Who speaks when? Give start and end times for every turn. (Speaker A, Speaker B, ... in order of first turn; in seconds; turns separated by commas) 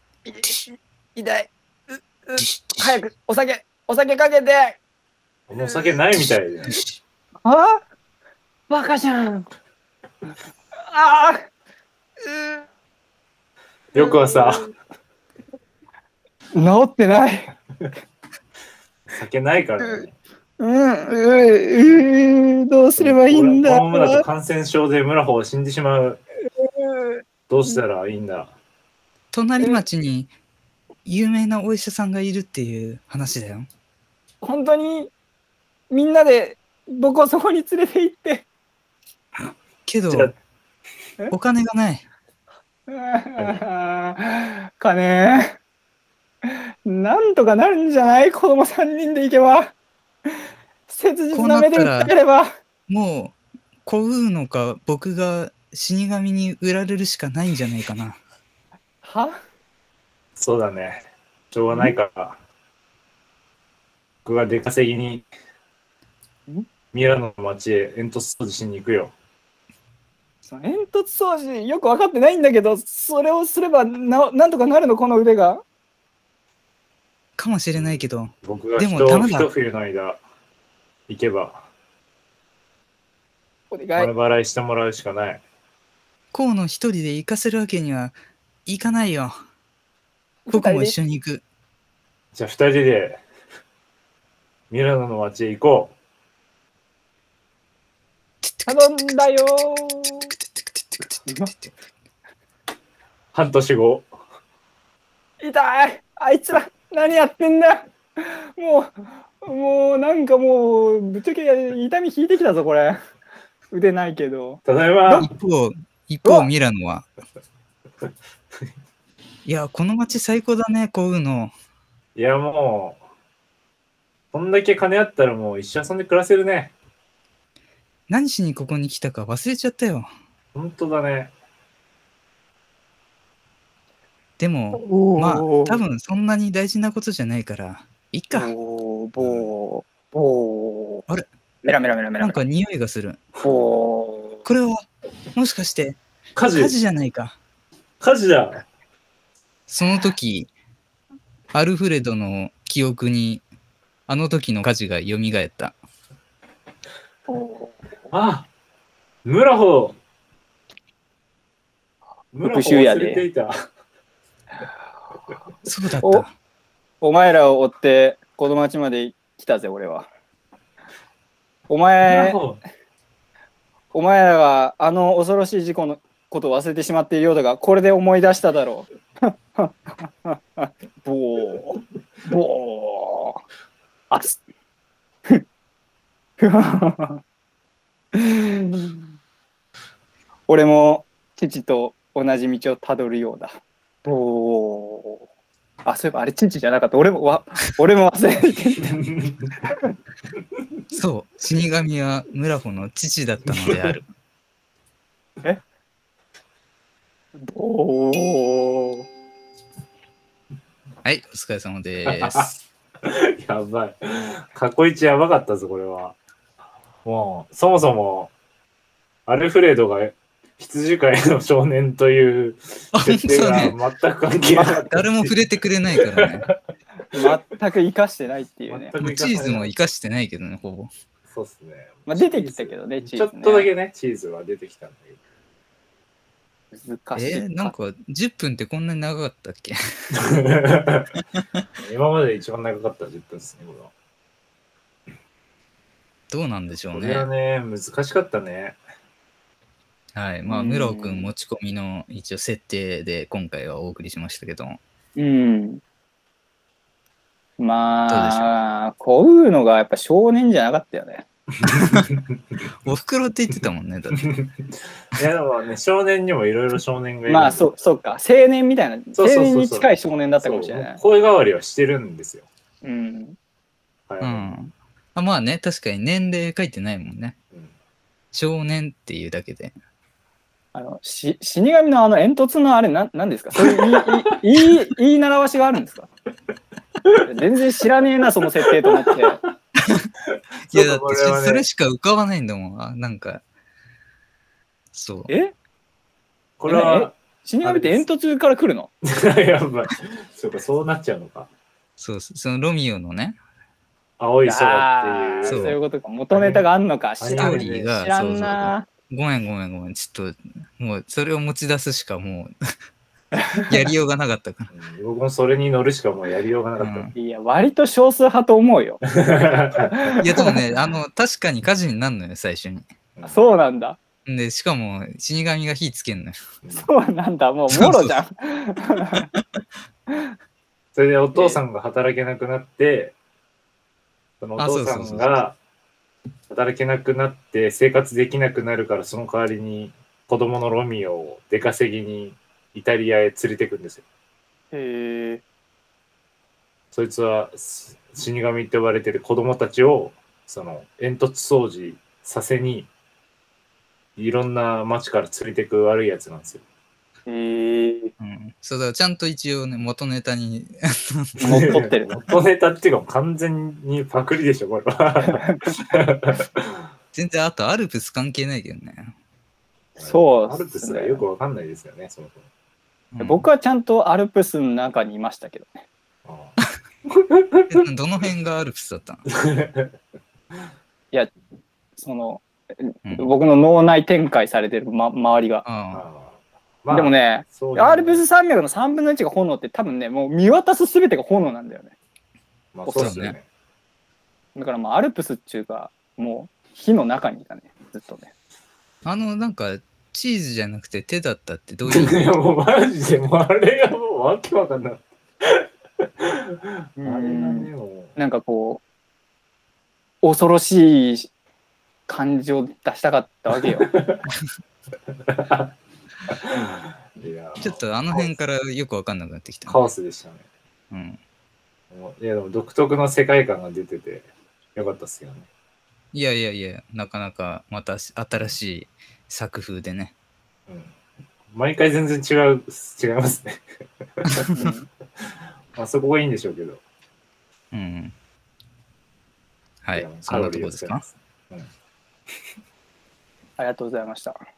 Speaker A: 0.2-4.8, Speaker B: 2.4-3.0, Speaker C: 5.5-6.8, Speaker A: 7.4-7.8, Speaker A: 8.7-9.5, Speaker A: 10.9-11.4, Speaker A: 12.2-12.6, Speaker C: 13.9-14.7, Speaker A: 13.9-14.7, Speaker A: 16.5-17.5, Speaker C: 19.1-20.1, Speaker A: 20.6-24.2, Speaker C: 23.0-26.2, Speaker A: 26.6-27.2, Speaker C: 27.5-28.5, Speaker B: 29.3-30.3, Speaker B: 31.0-33.7, Speaker A: 34.4-35.1, Speaker A: 35.9-38.5, Speaker B: 39.9-40.3, Speaker C: 40.1-40.3, Speaker B: 41.3-42.0, Speaker A: 42.9-45.5, Speaker C: 43.4-43.6, Speaker A: 46.5-49.7, Speaker A: 50.9-52.5, Speaker B: 51.3-52.1, Speaker B: 52.9-58.2, Speaker A: 59.0-59.3, Speaker C: 60.4-62.4, Speaker C: 64.2-65.2, Speaker C: 66.9-69.1, Speaker A: 70.4-75.6, Speaker B: 77.4-79.5, Speaker C: 77.7-80.2, Speaker C: 81.1-81.7, Speaker A: 83.7-84.1, Speaker C: 84.0-85.4, Speaker B: 86.3-89.3, Speaker A: 90.5-90.9, Speaker B: 90.5-91.4, Speaker C: 92.3-93.2, Speaker C: 94.7-96.0, Speaker B: 98.4-99.1, Speaker A: 98.7-100.3, Speaker B: 100.5-101.7, Speaker C: 103.3-104.1, Speaker A: 105.4-113.0, Speaker A: 113.7-115.3, Speaker C: 114.6-115.3, Speaker B: 115.2-117.1, Speaker A: 116.2-116.5, Speaker B: 119.5-121.5, Speaker C: 122.1-123.0, Speaker C: 124.3-126.7, Speaker B: 128.1-130.1, Speaker C: 130.5-131.3, Speaker B: 134.4-138.5, Speaker A: 134.7-135.8, Speaker A: 138.3-141.0, Speaker C: 139.2-139.5, Speaker A: 141.6-142.4, Speaker B: 142.2-143.2, Speaker A: 143.4-144.4, Speaker B: 144.4-146.0, Speaker C: 146.3-146.8, Speaker B: 146.5-147.3, Speaker C: 148.0-148.6, Speaker B: 149.7-150.5, Speaker B: 151.5-153.4, Speaker B: 154.1-155.8, Speaker A: 157.3-157.8, Speaker C: 158.1-158.5, Speaker C: 159.2-160.0, Speaker C: 162.3-163.5, Speaker A: 162.4-163.2, Speaker B: 165.6-166.3, Speaker A: 167.0-170.1, Speaker A: 171.7-172.4, Speaker C: 172.0-172.6, Speaker A: 173.9-183.4, Speaker A: 184.1-184.4, Speaker A: 186.4-187.2, Speaker A: 188.1-189.1, Speaker A: 190.5-195.2, Speaker A: 195.8-199.0, Speaker C: 198.9-199.5, Speaker B: 200.9-204.0, Speaker A: 207.4-209.1, Speaker B: 211.0-212.5, Speaker C: 212.0-216.2, Speaker C: 217.0-218.3, Speaker C: 219.2-225.4, Speaker B: 222.9-223.8, Speaker B: 224.5-226.5, Speaker C: 225.9-226.5, Speaker A: 227.1-228.9, Speaker C: 228.7-229.8, Speaker B: 229.0-230.9, Speaker C: 231.3-235.2, Speaker A: 232.1-233.7, Speaker A: 236.7-237.7, Speaker B: 237.2-239.8, Speaker C: 240.2-241.1, Speaker C: 241.8-243.9, Speaker B: 246.3-247.3, Speaker C: 246.9-248.8, Speaker B: 250.1-254.8, Speaker A: 250.4-251.3, Speaker A: 255.2-255.8, Speaker A: 257.6-261.2, Speaker B: 258.1-258.6, Speaker B: 261.6-262.1, Speaker B: 262.8-264.2, Speaker C: 264.2-264.5, Speaker C: 265.1-267.7, Speaker A: 267.3-271.0, Speaker C: 269.1-269.9, Speaker C: 270.4-272.5, Speaker A: 272.8-273.4, Speaker C: 274.1-274.6, Speaker B: 274.2-277.4, Speaker B: 278.3-279.7, Speaker A: 280.7-286.1, Speaker A: 287.2-289.4, Speaker C: 288.8-289.1, Speaker C: 290.7-291.6, Speaker B: 290.7-293.4, Speaker B: 294.9-295.3, Speaker A: 295.3-295.5, Speaker C: 296.6-298.0, Speaker A: 296.7-298.9, Speaker C: 299.0-301.5, Speaker B: 302.0-303.4, Speaker C: 304.2-305.8, Speaker A: 304.4-308.9, Speaker B: 305.5-305.8, Speaker C: 306.3-306.7, Speaker C: 307.2-307.9, Speaker B: 307.4-312.5, Speaker B: 313.7-314.7, Speaker C: 314.7-317.1, Speaker B: 316.8-317.1, Speaker A: 317.1-319.0, Speaker C: 319.1-319.9, Speaker A: 319.8-320.5, Speaker B: 320.2-322.8, Speaker C: 323.1-323.5, Speaker A: 323.2-324.0, Speaker B: 324.2-326.4, Speaker A: 326.8-329.3, Speaker B: 327.7-328.1, Speaker C: 330.9-333.1, Speaker A: 331.3-331.6, Speaker C: 334.4-335.6, Speaker B: 334.6-335.4, Speaker C: 336.5-344.0, Speaker A: 344.7-345.4, Speaker C: 346.9-352.9, Speaker C: 354.1-356.6, Speaker A: 357.3-358.1, Speaker B: 358.2-361.8, Speaker A: 361.4-362.2, Speaker C: 361.4-366.6, Speaker A: 365.3-365.6, Speaker B: 367.1-369.1, Speaker A: 370.0-371.2, Speaker C: 370.0-372.4, Speaker B: 373.1-373.5, Speaker A: 373.2-375.8, Speaker C: 376.2-376.6, Speaker C: 377.3-377.8, Speaker B: 377.7-379.2, Speaker C: 379.3-379.9, Speaker A: 382.0-385.6, Speaker B: 383.1-383.3, Speaker B: 385.6-386.0, Speaker C: 385.9-388.2, Speaker A: 386.9-391.9, Speaker C: 392.7-393.4, Speaker A: 392.8-393.2, Speaker B: 393.0-393.4, Speaker A: 394.5-398.3, Speaker B: 399.0-402.3, Speaker C: 401.9-405.6, Speaker C: 406.2-408.1, Speaker A: 407.0-408.8, Speaker A: 410.2-411.3, Speaker A: 412.1-413.9, Speaker C: 413.6-414.2, Speaker C: 415.3-415.7, Speaker C: 416.4-418.3, Speaker B: 417.6-419.8, Speaker C: 419.7-420.4, Speaker B: 420.9-421.2, Speaker C: 421.9-425.5, Speaker B: 426.1-430.1, Speaker C: 431.5-433.6, Speaker A: 434.5-434.9, Speaker C: 435.8-436.8, Speaker B: 437.7-438.1, Speaker B: 439.8-441.1, Speaker C: 439.9-441.7, Speaker A: 443.6-444.4